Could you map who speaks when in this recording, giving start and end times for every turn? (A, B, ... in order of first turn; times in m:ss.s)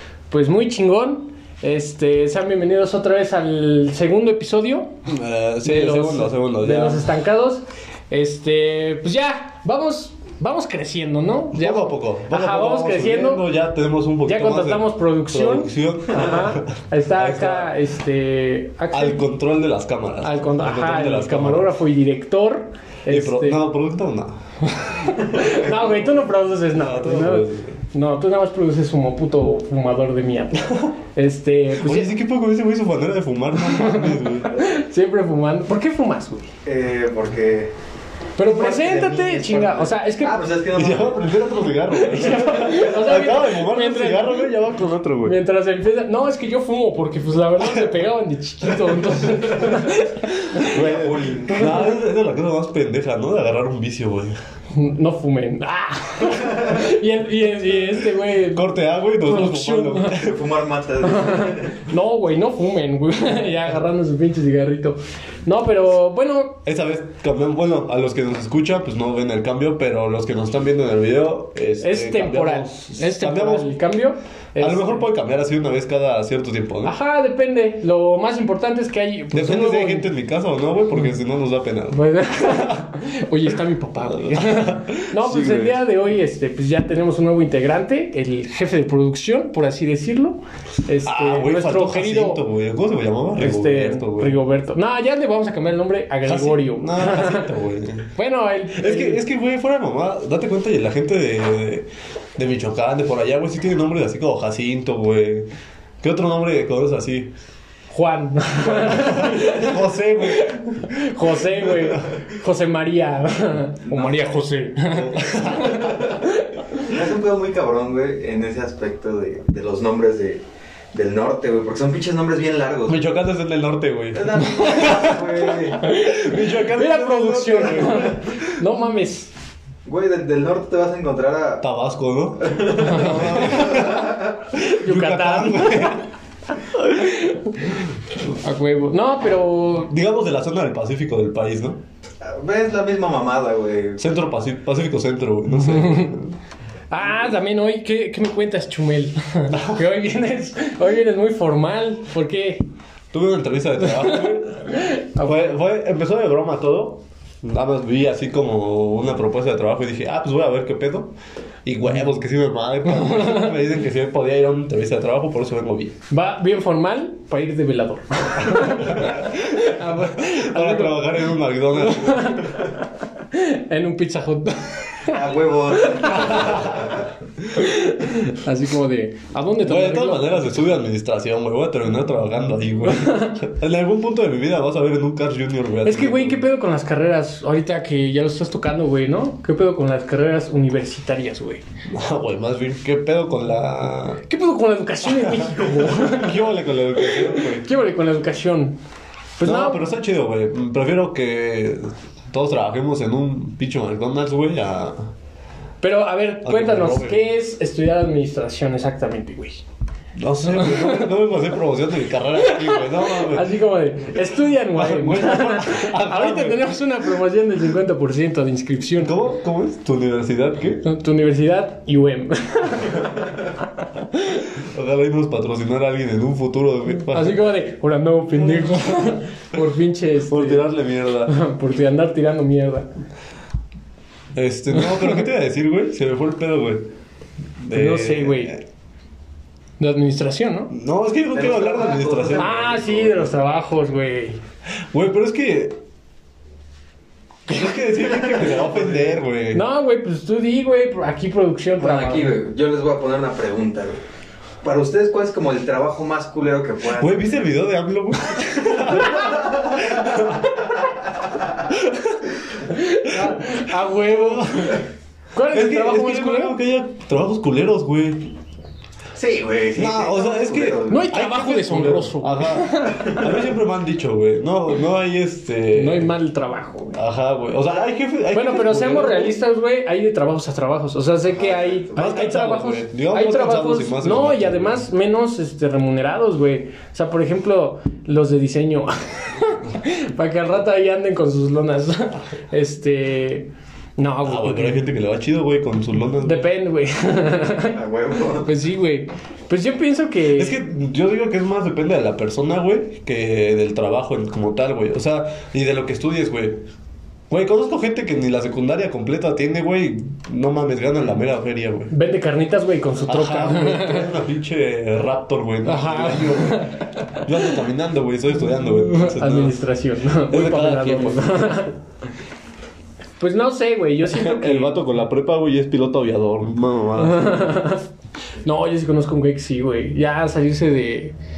0:00.3-0:04.9 A
0:05.1-0:07.1 B
0:05.6-0:13.4 A
0:11.5-0:17.7 B
0:14.2-0:19.2 A
0:18.9-0:21.7 B
0:20.2-0:23.6 A
0:23.1-0:25.2 B
0:24.8-0:32.1 A
0:26.7-0:27.8 B
0:31.8-0:34.5 B
0:33.7-0:36.5 A
0:36.6-0:37.7 C
0:38.4-0:40.4 A
0:38.4-0:41.3 C
0:40.7-0:45.4 B
0:41.9-0:44.5 A
0:45.2-0:50.8 A
0:47.6-0:47.9 B
0:50.6-0:54.4 B
0:50.6-0:51.7 C
0:51.6-0:51.9 A
0:54.7-1:00.2 A
0:58.5-1:00.4 B
1:00.1-1:01.8 C
1:01.0-1:06.6 A
1:06.6-1:13.8 B
1:11.8-1:15.0 A
1:14.6-1:17.0 B
1:16.8-1:20.1 A
1:19.3-1:22.9 B
1:21.9-1:32.4 A
1:24.1-1:25.8 B
1:31.0-1:34.4 B
1:33.4-1:37.5 A
1:36.2-1:38.1 B
1:38.2-1:39.2 A
1:38.7-1:45.5 B
1:46.0-1:47.3 B
1:47.9-1:56.7 A
1:48.6-1:52.0 B
1:53.8-1:54.4 C
1:54.9-1:56.0 B
1:56.8-2:00.4 C
2:00.9-2:03.0 C
2:02.9-2:08.5 B
2:04.1-2:05.9 C
2:05.7-2:09.3 A
2:09.8-2:11.6 C
2:11.6-2:16.0 B
2:12.4-2:14.2 C
2:12.7-2:19.9 A
2:19.9-2:21.8 B
2:22.2-2:24.0 C
2:24.0-2:26.4 B
2:25.6-2:26.1 A
2:26.9-2:32.6 A
2:29.5-2:29.8 B
2:33.1-2:41.1 B
2:33.8-2:35.5 A
2:41.6-2:45.9 B
2:43.0-2:43.5 A
2:46.1-2:51.2 A
2:48.7-2:52.5 B
2:51.8-2:56.5 A
2:55.1-2:57.1 C
2:56.2-2:56.9 B
2:57.5-3:00.6 A
2:59.6-3:06.4 B
3:02.9-3:03.4 A
3:05.8-3:11.6 A
3:11.9-3:14.2 B
3:14.2-3:16.4 A
3:15.1-3:17.7 B
3:17.0-3:18.8 A
3:19.4-3:19.8 A
3:19.4-3:25.1 B
3:25.8-3:29.6 A
3:26.4-3:27.4 B
3:30.2-3:33.6 B
3:30.5-3:31.1 A
3:32.4-3:39.2 A
3:34.7-3:36.7 B
3:39.0-3:40.8 B
3:40.8-3:44.4 A
3:44.5-3:47.4 B
3:47.1-3:50.7 A
3:50.3-3:51.3 B
3:51.2-3:52.9 A
3:54.3-3:56.8 B
3:54.8-3:55.0 A
3:57.6-3:58.6 B
3:57.7-3:58.5 A
3:59.8-4:00.7 A
4:00.7-4:03.3 B
4:01.3-4:02.5 C
4:02.3-4:04.4 A
4:04.9-4:05.8 B
4:07.5-4:09.6 B
4:07.9-4:09.1 C
4:09.5-4:12.3 A
4:11.8-4:14.0 C
4:14.6-4:17.2 C
4:16.9-4:20.4 B
4:18.5-4:19.4 A
4:19.2-4:20.1 C
4:21.7-4:22.2 B
4:22.6-4:26.6 A
4:23.2-4:24.8 B
4:25.5-4:28.3 B
4:29.1-4:31.1 C
4:29.8-4:36.1 B
4:30.9-4:33.4 A
4:35.7-4:37.0 A
4:36.9-4:39.4 B
4:38.3-4:54.8 A
4:41.3-4:42.2 C
4:42.0-4:44.9 B
4:54.2-4:56.5 B
4:56.2-4:57.8 A
4:57.6-4:58.5 C
4:58.3-5:00.6 A
5:00.3-5:06.6 B
5:07.3-5:11.9 B
5:11.9-5:14.1 A
5:13.0-5:19.6 B
5:15.6-5:17.5 A
5:18.8-5:21.7 A
5:20.3-5:21.7 B
5:23.2-5:24.8 A
5:24.1-5:27.6 B
5:27.0-5:27.8 A
5:28.4-5:31.1 A